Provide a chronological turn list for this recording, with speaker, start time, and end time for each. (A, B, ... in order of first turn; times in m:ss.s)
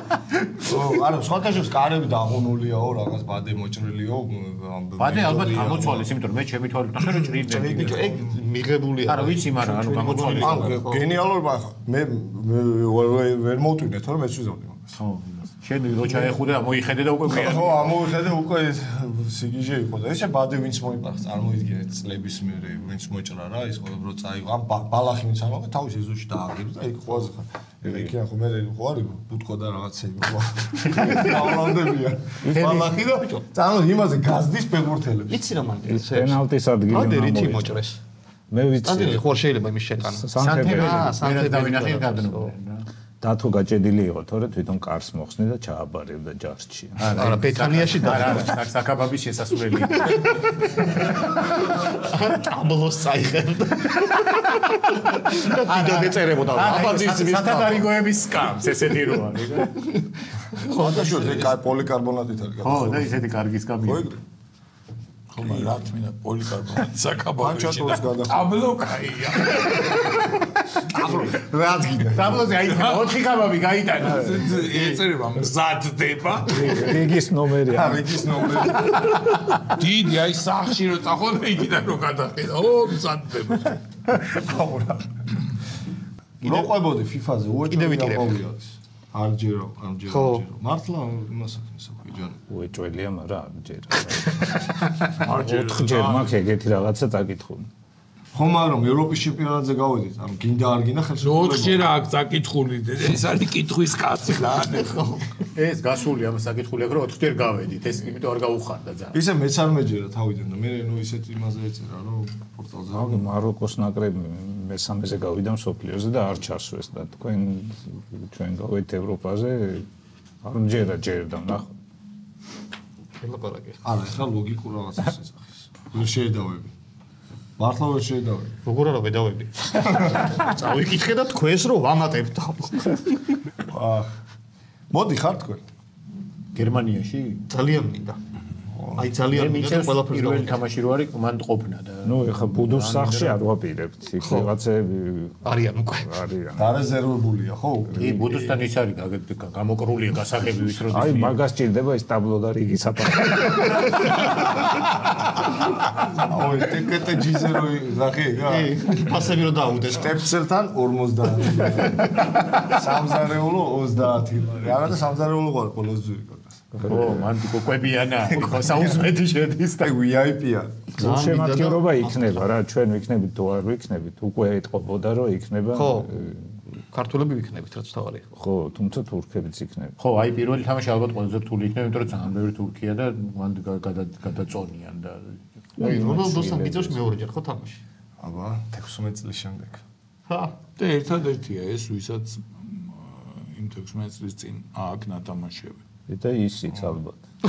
0:00.6-0:06.1 A
0:05.0-0:08.2 B
0:07.4-0:11.0 C
0:07.6-0:08.3 A
0:09.1-0:10.8 B
0:10.1-0:15.0 A
0:15.0-0:17.8 B
0:16.0-0:16.4 A
0:17.3-0:35.5 A
0:30.9-0:31.4 B
0:32.4-0:32.8 D
0:32.5-0:33.0 B
0:33.0-0:33.4 C
0:35.3-0:38.0 C
0:35.8-0:37.8 D
0:38.5-0:39.2 D
0:38.8-0:42.5 C
0:40.1-0:41.1 D
0:40.4-0:42.8 B
0:43.2-0:47.2 D
0:47.0-0:51.2 B
0:47.1-0:48.6 C
0:50.0-0:57.8 C
0:55.3-0:59.8 B
0:59.8-1:01.5 C
1:00.6-1:03.1 A
1:02.6-1:04.1 B
1:03.8-1:04.2 A
1:05.3-1:10.3 E
1:05.4-1:05.7 A
1:07.4-1:08.5 A
1:09.4-1:10.2 A
1:10.8-1:12.6 A
1:11.0-1:11.2 B
1:12.1-1:14.4 B
1:12.6-1:13.0 E
1:14.0-1:17.0 E
1:14.0-1:14.5 D
1:16.4-1:18.2 D
1:17.7-1:19.4 A
1:19.6-1:23.8 E
1:24.1-1:25.1 A
1:26.4-1:32.4 A
1:27.7-1:28.4 C
1:30.1-1:30.4 C
1:32.5-1:34.6 D
1:35.2-1:36.3 E
1:35.3-1:37.7 D
1:38.3-1:41.9 A
1:41.2-1:45.0 E
1:44.7-1:45.3 C
1:45.5-1:49.2 B
1:49.1-1:53.2 A
1:52.9-1:59.9 D
2:00.4-2:01.7 D
2:03.2-2:03.8 C
2:03.8-2:06.7 A
2:07.6-2:08.6 A
2:08.6-2:13.4 C
2:13.7-2:14.1 A
2:14.9-2:15.6 A
2:16.5-2:17.4 B
2:17.5-2:18.2 C
2:18.7-2:19.1 A
2:19.0-2:20.6 C
2:19.3-2:23.4 B
2:22.0-2:25.4 D
2:24.2-2:24.5 C
2:25.4-2:26.1 C
2:26.0-2:26.7 D
2:26.5-2:28.3 A
2:27.9-2:28.4 D
2:28.0-2:31.4 B
2:30.9-2:34.2 D
2:36.1-2:39.3 A
2:38.4-2:40.2 C
2:39.8-2:47.3 A
2:46.8-2:49.9 B
2:48.2-2:49.1 A
2:49.8-2:50.9 A
2:51.0-2:52.2 C
2:51.0-2:56.4 D
2:55.7-2:58.3 C
2:58.4-2:59.9 D
3:00.0-3:05.4 B
3:05.8-3:07.0 D
3:05.8-3:07.8 C
3:08.2-3:09.8 A
3:10.3-3:10.5 C
3:10.8-3:15.8 E
3:16.1-3:17.2 D